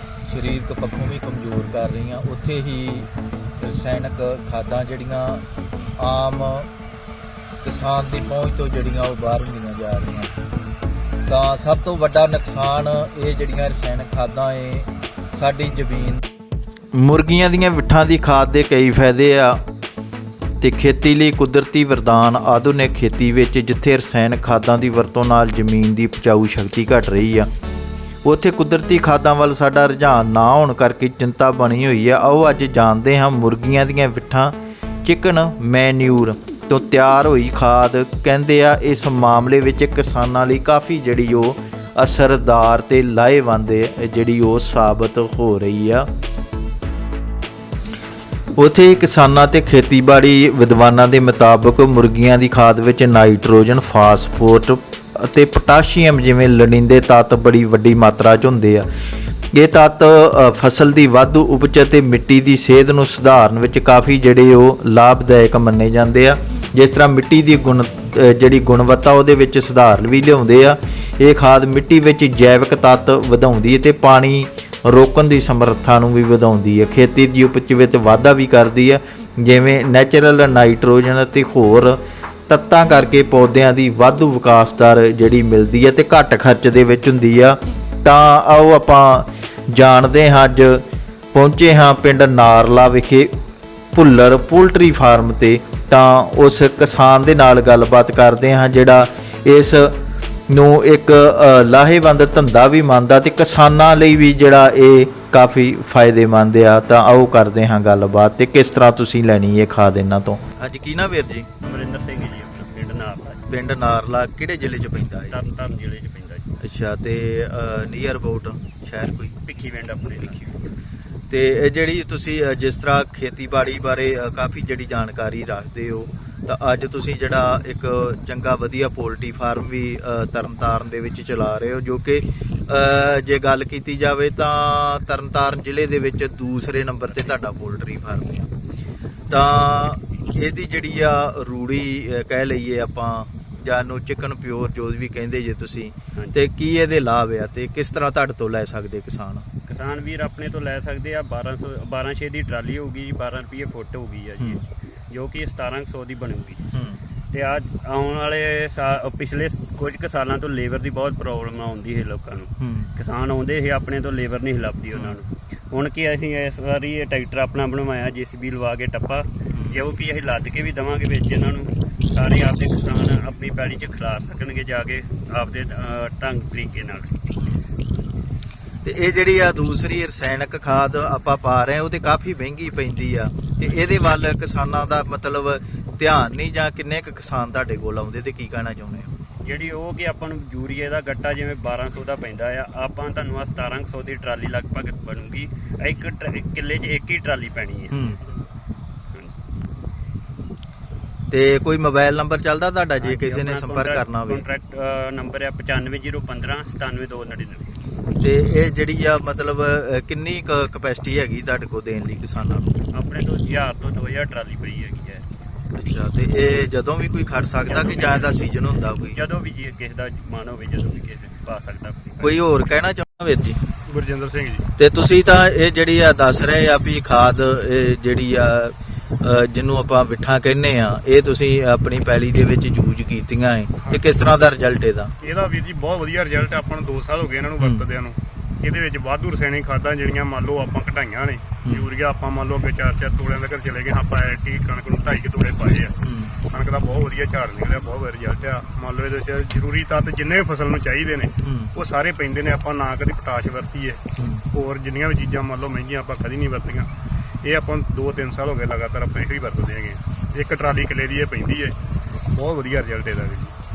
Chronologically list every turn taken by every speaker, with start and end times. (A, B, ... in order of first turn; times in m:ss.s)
0:00.2-0:05.4 A
0:06.0-0:06.7 A
0:07.6-0:10.3 A
0:11.3-0:16.2 A
0:16.9-0:19.6 A
0:20.6-0:27.5 A
0:28.2-0:46.1 A
0:48.6-0:58.9 A
0:59.5-1:33.3 A
1:33.9-1:40.0 A
1:40.5-1:51.5 A
1:51.6-1:53.5 B
1:53.5-1:55.4 A
1:55.2-1:56.6 B
1:56.6-1:59.4 A
1:59.3-2:00.5 B
2:01.3-2:18.5 A
2:19.3-2:29.5 A
2:29.7-2:36.7 B
2:36.7-2:37.0 A
2:37.3-2:57.4 B
2:42.6-2:42.9 A
2:49.5-2:49.8 A
2:57.4-2:57.6 A
2:58.8-3:09.1 A
3:09.4-3:18.1 B
3:17.9-3:18.2 A
3:21.3-3:24.4 A
3:23.0-3:27.7 B
3:28.2-3:32.8 A
3:32.9-3:35.2 B
3:35.8-3:39.2 A
3:37.6-3:38.5 B
3:39.1-3:42.4 B
3:42.2-3:43.6 A
3:43.9-3:44.6 C
3:44.8-3:55.1 A
3:53.8-3:54.1 C
3:55.2-4:06.0 C
4:06.0-4:06.3 A
4:06.5-4:16.9 C
4:11.4-4:11.7 A
4:14.2-4:14.4 A
4:17.4-4:21.7 C
4:22.3-4:23.5 C